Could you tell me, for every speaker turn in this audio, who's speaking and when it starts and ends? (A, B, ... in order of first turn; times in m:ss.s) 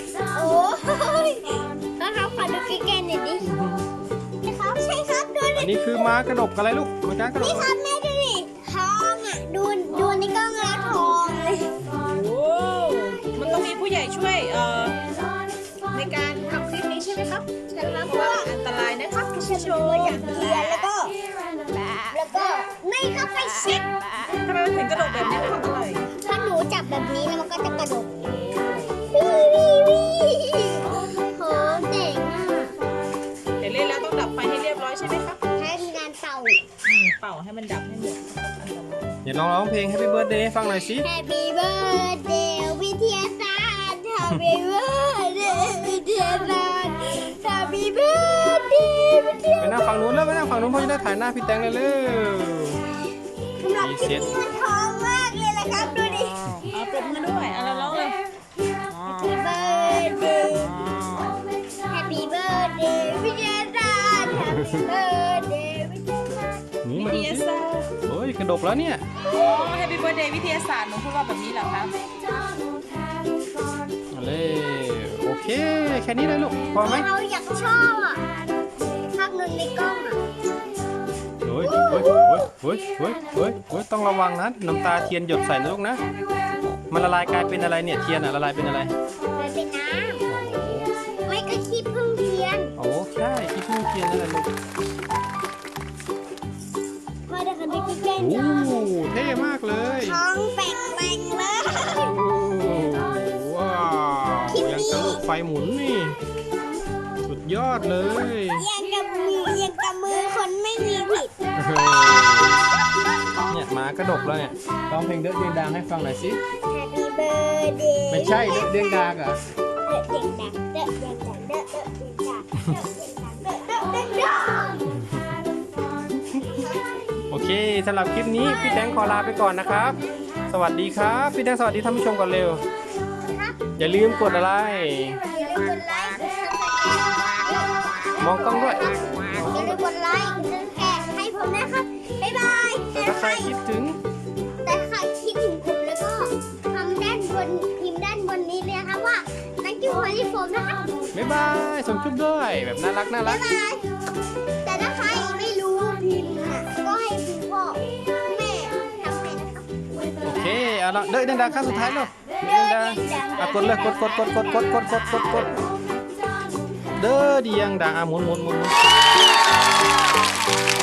0:00.3-0:03.5 A
0:03.4-0:03.8 B
0:04.4-0:06.1 A
0:05.5-0:07.7 B
0:07.3-0:11.7 A
0:12.0-0:15.0 C
0:15.9-0:20.3 C
0:17.7-0:18.5 A
0:19.4-0:21.2 A
0:22.1-0:23.8 A
0:23.6-0:26.1 C
0:26.2-0:28.2 A
0:28.2-0:29.0 C
0:29.1-0:32.8 A
0:33.6-0:35.4 C
0:35.6-0:36.6 A
0:36.8-0:39.1 C
0:39.2-0:41.1 B
0:41.0-0:50.0 A
0:49.6-0:52.8 B
0:53.6-0:56.4 A
0:53.8-0:54.4 B
0:56.7-0:58.2 C
0:59.0-1:00.8 A
1:01.9-1:06.6 A
1:06.8-1:07.5 B
1:07.0-1:07.9 C
1:08.0-1:09.0 B
1:09.2-1:09.8 A
1:09.3-1:12.0 C
1:14.1-1:17.1 B
1:16.8-1:18.2 A
1:19.1-1:20.2 A
1:21.4-1:26.0 B
1:21.6-1:22.5 A
1:26.9-1:28.9 B
1:29.3-1:30.2 A
1:30.3-1:30.9 B
1:31.2-1:32.7 A
1:32.8-1:34.5 B
1:37.3-1:38.9 A
1:38.2-1:40.2 B
1:40.0-1:42.1 A
1:42.0-1:46.2 B
1:44.5-1:45.2 A
1:47.2-1:48.6 B
1:48.5-1:51.3 A
1:51.6-1:52.6 B
1:53.5-1:56.4 B
1:56.7-1:59.0 A
1:58.1-1:59.4 B
1:59.8-2:04.8 A
2:07.3-2:12.6 B
2:08.6-2:09.0 A
2:13.2-2:13.7 A
2:13.8-2:15.2 B
2:15.2-2:23.5 A
2:18.2-2:19.7 B
2:22.9-2:24.0 B
2:24.6-2:31.0 A
2:31.1-2:33.4 B
2:33.2-2:33.9 A
2:34.6-2:39.8 A
2:40.2-2:45.5 B
2:42.4-2:44.9 A
2:47.0-2:48.8 B